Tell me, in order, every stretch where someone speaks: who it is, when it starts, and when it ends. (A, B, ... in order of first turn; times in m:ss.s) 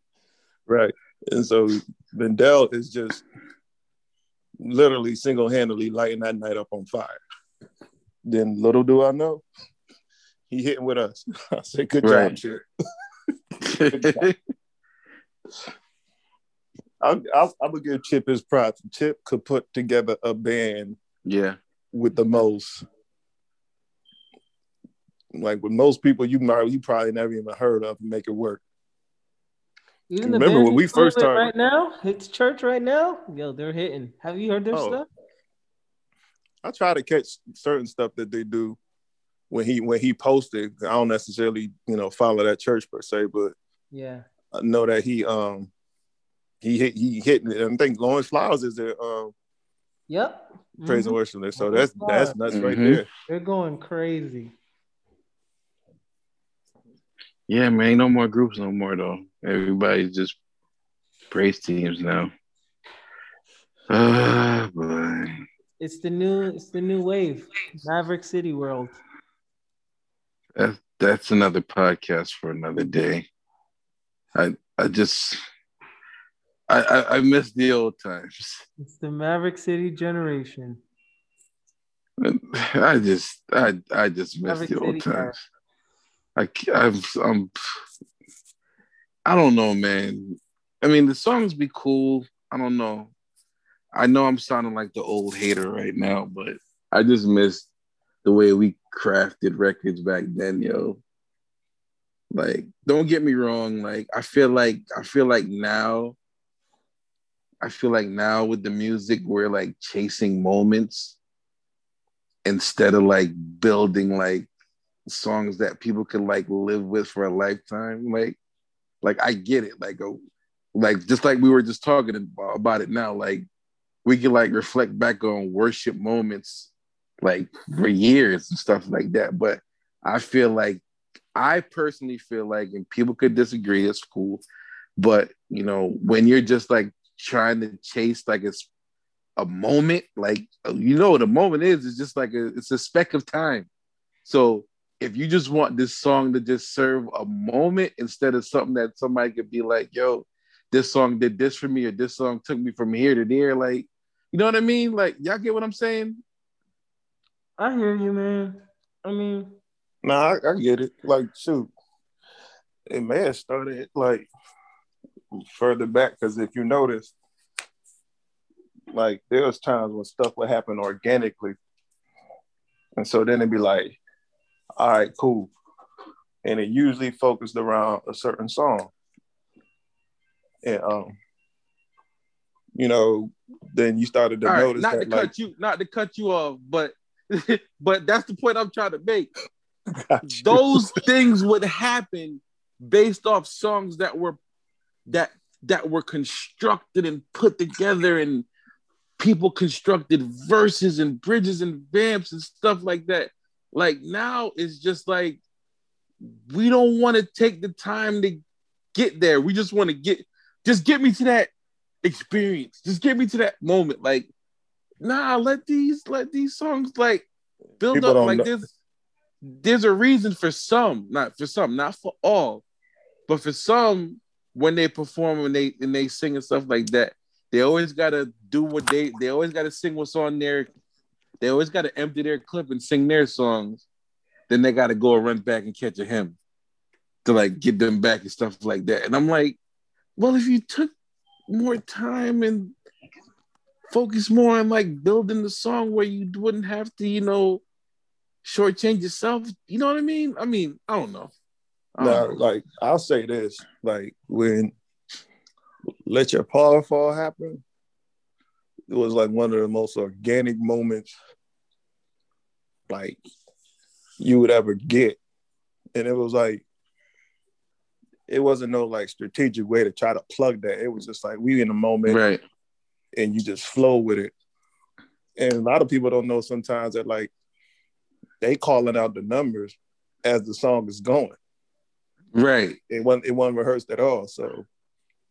0:00.7-0:03.2 A
0:04.6-0:07.2 A
0:08.3-0:09.4 A
0:10.5-0:12.6 A
0:12.0-0:12.4 B
0:13.6-0:14.3 B
0:13.9-0:14.3 A
0:17.0-0:21.0 A
0:21.3-0:21.6 B
0:21.9-0:22.8 A
0:25.4-0:28.6 A
0:30.1-0:35.1 C
0:30.2-0:31.5 A
0:34.7-0:35.0 A
0:36.6-0:38.8 A
0:39.5-0:43.5 A
0:43.9-0:44.2 C
0:44.5-0:45.7 A
0:46.6-0:49.3 A
0:50.1-0:52.4 C
0:50.8-0:53.1 A
0:52.5-0:53.0 B
0:53.3-0:54.5 C
0:57.5-1:00.4 B
1:01.3-1:02.3 B
1:03.9-1:05.4 B
1:05.8-1:09.0 C
1:10.6-1:13.3 B
1:14.4-1:15.4 B
1:16.7-1:18.6 B
1:18.8-1:20.8 C
1:22.2-1:25.4 B
1:24.5-1:25.4 C
1:26.4-1:27.5 B
1:29.2-1:33.1 B
1:34.0-1:37.7 B
1:38.2-1:41.0 B
1:42.3-1:46.2 B
1:47.6-1:51.2 B
1:52.4-1:54.5 B
1:55.1-1:58.4 B
1:59.0-2:00.2 B
2:00.8-2:03.4 B
2:04.0-2:06.7 B
2:07.2-2:10.8 B
2:11.4-2:14.4 B
2:15.0-2:18.7 B
2:19.4-2:23.7 B
2:24.2-2:36.2 B
2:37.6-2:39.6 C
2:40.0-2:41.7 A
2:42.9-2:44.3 A
2:45.5-2:47.1 A
2:48.9-2:51.6 A
2:53.0-2:54.0 A
2:54.8-2:55.5 A
2:56.4-2:58.9 A
3:00.6-3:01.2 A
3:02.8-3:05.3 A
3:04.5-3:09.3 B
3:10.0-3:11.0 A
3:10.2-3:14.4 B
3:15.1-3:18.5 B
3:19.2-3:25.4 B
3:26.5-3:28.4 B
3:29.0-3:31.5 B
3:32.0-3:34.3 B
3:35.0-3:37.3 B
3:37.8-3:38.7 B
3:37.9-3:38.5 A
3:39.4-3:42.6 B
3:43.3-3:50.7 B
3:51.4-3:53.8 B
3:54.5-3:56.4 B
3:57.2-3:59.6 B
4:00.2-4:00.9 B
4:01.5-4:02.7 B
4:03.9-4:07.6 B
4:08.4-4:11.3 B
4:12.0-4:12.3 B
4:12.0-4:14.7 A
4:16.1-4:17.6 A
4:18.9-4:21.1 A
4:22.9-4:23.2 A
4:24.2-4:25.2 A
4:26.0-4:26.6 A
4:28.3-4:32.2 A
4:32.1-4:32.4 B
4:33.2-4:34.3 A
4:35.4-4:37.3 A
4:38.4-4:41.4 A
4:42.3-4:42.8 B
4:42.9-4:44.7 A